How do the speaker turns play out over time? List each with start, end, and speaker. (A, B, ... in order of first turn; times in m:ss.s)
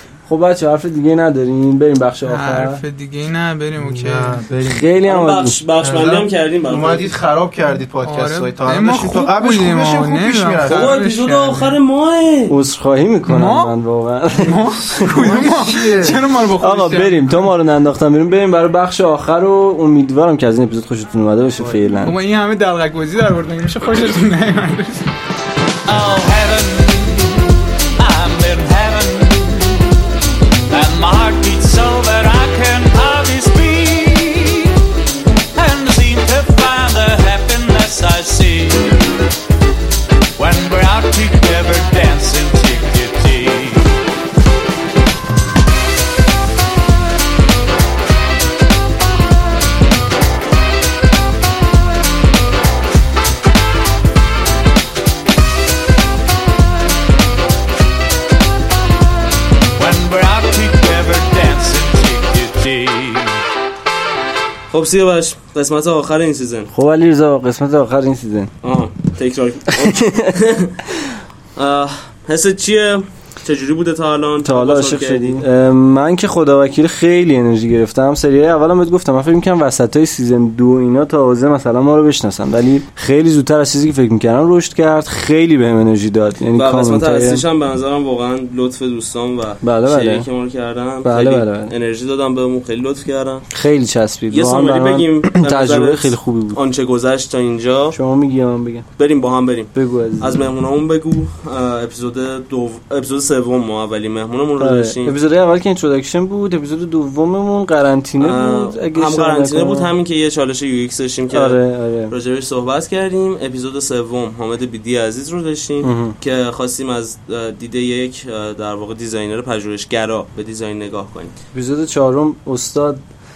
0:00.3-0:02.8 A
0:02.2-0:04.4 B
0:03.8-0:04.9 C
0:04.7-0:05.6 A
0:05.0-0:07.1 D
0:05.8-0:11.0 C
0:08.0-0:11.7 B
0:10.7-0:12.6 D
0:12.5-0:15.2 A
0:13.3-0:13.8 B
0:14.3-0:17.5 B
0:14.9-0:16.2 C
0:16.6-0:22.1 A
0:21.6-0:22.0 C
0:22.0-0:25.0 B
0:25.9-0:29.9 E
0:30.7-0:34.7 E
0:35.5-0:39.0 E
0:40.4-0:43.9 E
0:59.8-1:03.4 E
1:04.7-1:06.7 D
1:06.7-1:08.5 A
1:08.6-1:10.8 D
1:09.8-1:10.3 A
1:11.6-1:15.4 D
1:14.4-1:27.4 A
1:26.5-1:33.4 D
1:29.6-1:30.2 A
1:31.0-1:31.7 A
1:33.5-1:36.6 A
1:34.3-1:38.0 D
1:37.9-1:38.8 A
1:39.0-1:45.2 D
1:39.7-1:40.5 A
1:44.6-1:49.9 A
1:48.2-2:01.3 D
1:51.3-1:52.1 A
1:55.8-1:56.1 A
2:01.5-2:03.0 A